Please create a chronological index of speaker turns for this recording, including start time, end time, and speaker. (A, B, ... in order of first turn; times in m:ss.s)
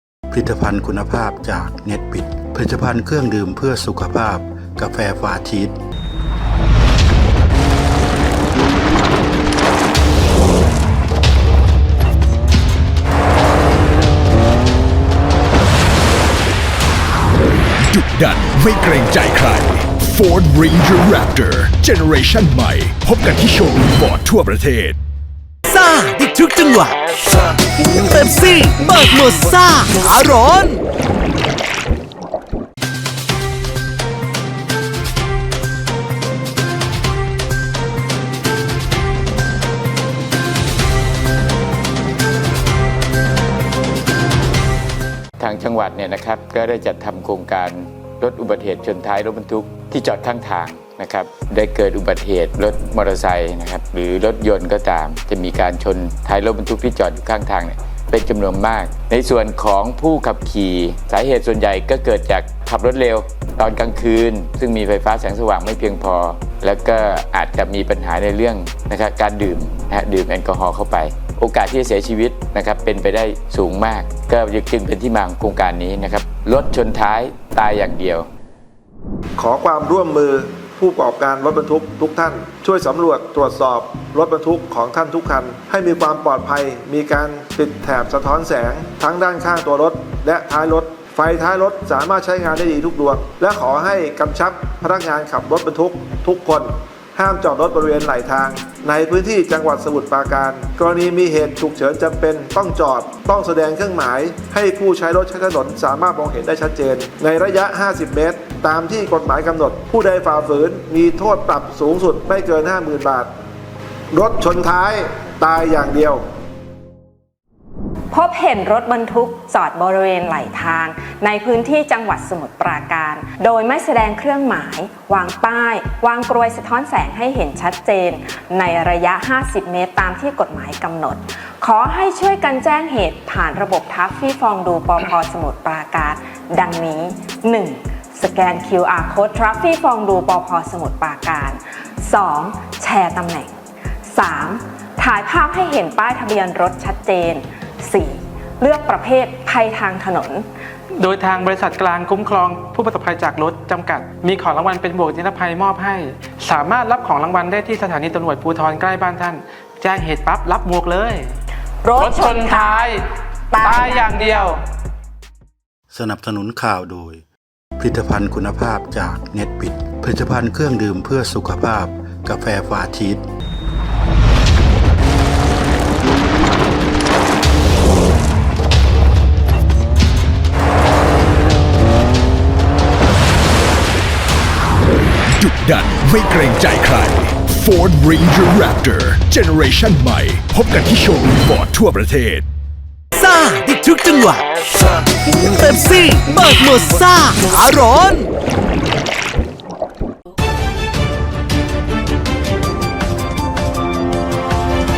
0:00.3-0:05.8 A
0:17.8-0:25.0 B
0:25.7-0:27.1 C
0:27.8-0:30.8 C
0:45.4-1:18.3 D
1:19.4-1:53.3 E
1:54.1-1:56.2 E
1:58.1-2:23.5 F
2:24.1-2:30.5 F
2:31.0-2:41.3 G
2:41.8-2:42.8 F
2:42.0-2:43.0 G
2:43.5-2:44.1 F
2:43.6-2:44.6 G
2:45.9-2:47.2 A
2:47.8-2:53.2 A
3:05.3-3:12.4 B
3:13.1-3:18.3 C